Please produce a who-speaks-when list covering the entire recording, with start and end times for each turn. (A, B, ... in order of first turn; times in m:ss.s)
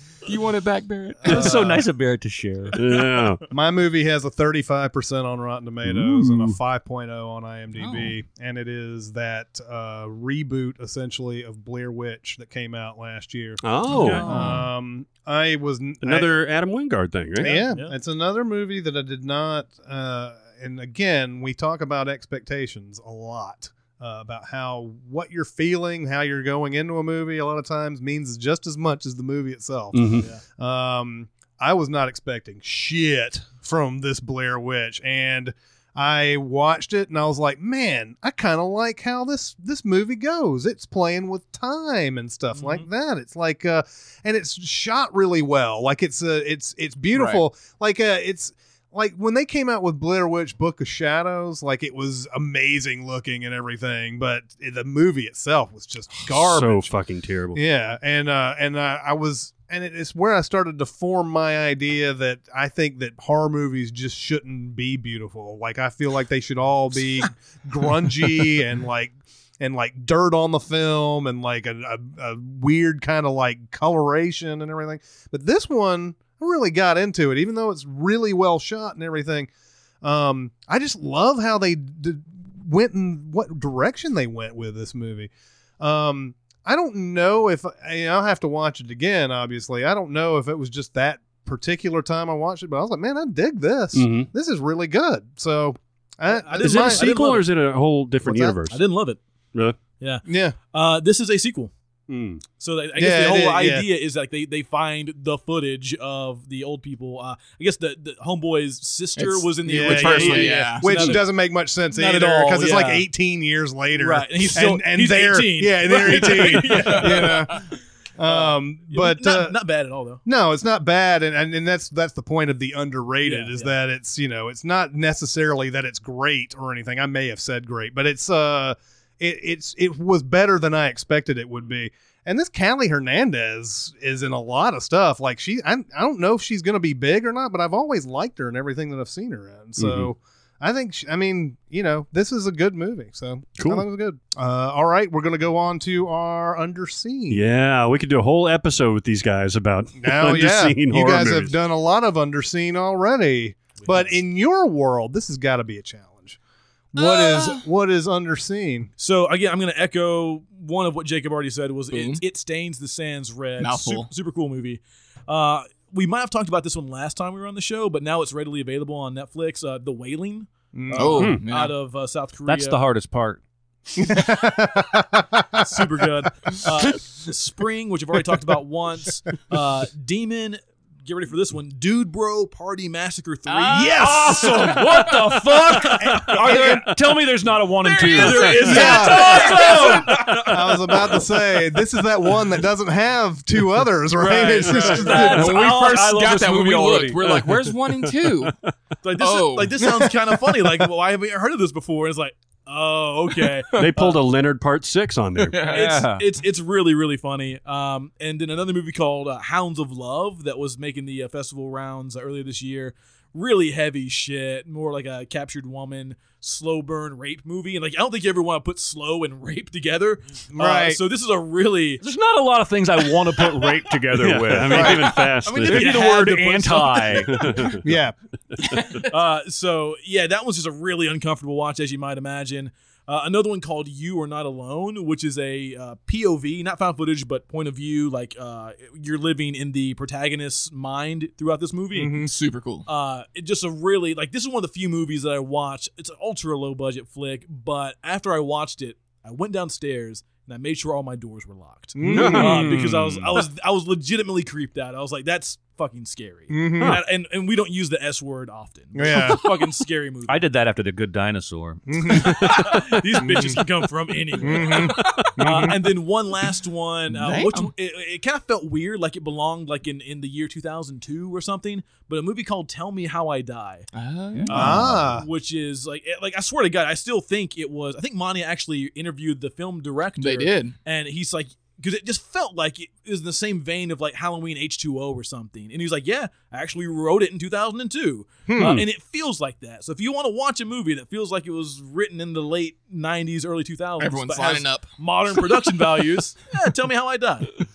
0:00.2-0:01.6 A
0:01.2-0:02.8 B
0:01.3-0:01.8 C
0:02.7-0:03.4 D
0:03.5-0:16.3 C
0:05.8-0:06.6 D
0:07.8-0:08.1 A
0:13.6-0:14.3 D
0:13.9-0:14.4 E
0:14.0-0:14.7 B
0:16.0-0:17.6 D
0:17.4-0:56.9 C
0:17.4-0:17.9 E
0:29.9-0:30.3 D
0:30.2-0:30.4 E
0:42.5-0:42.9 E
0:47.1-0:47.4 A
0:56.3-0:57.6 D
0:57.5-1:19.5 C
1:20.0-1:37.1 C
1:33.9-1:34.3 D
1:36.2-1:37.4 E
1:36.6-1:38.8 D
1:38.2-1:38.6 C
1:38.7-1:39.2 E
1:40.0-1:41.7 E
1:40.2-1:40.6 C
1:42.1-1:42.4 D
1:42.6-1:51.3 E
1:43.0-1:43.8 C
1:49.2-1:51.2 A
1:49.6-1:59.6 C
1:51.9-1:53.1 E
1:53.9-1:57.6 E
1:56.8-1:57.4 A
1:58.2-2:00.2 E
2:00.2-2:27.4 C
2:03.2-2:03.7 E
2:19.8-2:20.1 D
2:23.6-2:23.8 D
2:27.3-2:31.5 D
2:30.0-2:36.4 C
2:33.8-2:34.2 E
2:36.9-2:38.9 C
2:37.0-2:37.6 A
2:39.0-2:52.8 E
2:41.9-2:42.2 A
2:43.6-2:44.1 A
2:50.7-2:51.3 C
2:50.9-2:51.7 A
2:51.2-2:51.4 D
2:52.5-2:53.4 B
2:54.0-2:55.8 C
2:55.6-3:06.8 E
3:03.5-3:04.1 A
3:03.7-3:09.2 B
3:06.0-3:06.9 C
3:07.8-3:09.9 A
3:08.0-3:11.1 E
3:08.6-3:15.7 C
3:14.3-3:15.3 E
3:14.4-3:17.2 B
3:15.0-3:18.5 A
3:17.2-3:18.5 D
3:19.0-3:24.2 E
3:19.2-3:19.9 A
3:23.7-3:25.7 D
3:25.4-3:25.8 A
3:25.7-3:42.0 E
3:25.7-3:26.2 B
3:40.5-3:41.0 C
3:42.0-3:47.4 B
3:44.1-3:46.1 D
3:44.7-3:47.6 E
3:47.3-3:47.8 D
3:47.8-3:48.1 C
3:48.6-3:49.0 D
3:49.0-4:02.2 E
4:01.9-4:02.3 C
4:02.2-4:02.8 A
4:02.8-4:20.4 E
4:12.0-4:12.7 C
4:12.1-4:13.4 D
4:12.3-4:12.9 B
4:16.5-4:17.0 C
4:18.9-4:19.4 C
4:20.3-4:22.8 B
4:21.9-4:22.6 C
4:22.0-4:33.9 E
4:23.2-4:23.6 C
4:24.4-4:25.9 C
4:27.2-4:27.7 A
4:33.9-4:34.8 A
4:34.4-4:57.5 E
4:34.5-4:35.2 C
4:40.2-4:40.7 A
4:48.5-4:48.8 C
4:54.0-4:54.9 A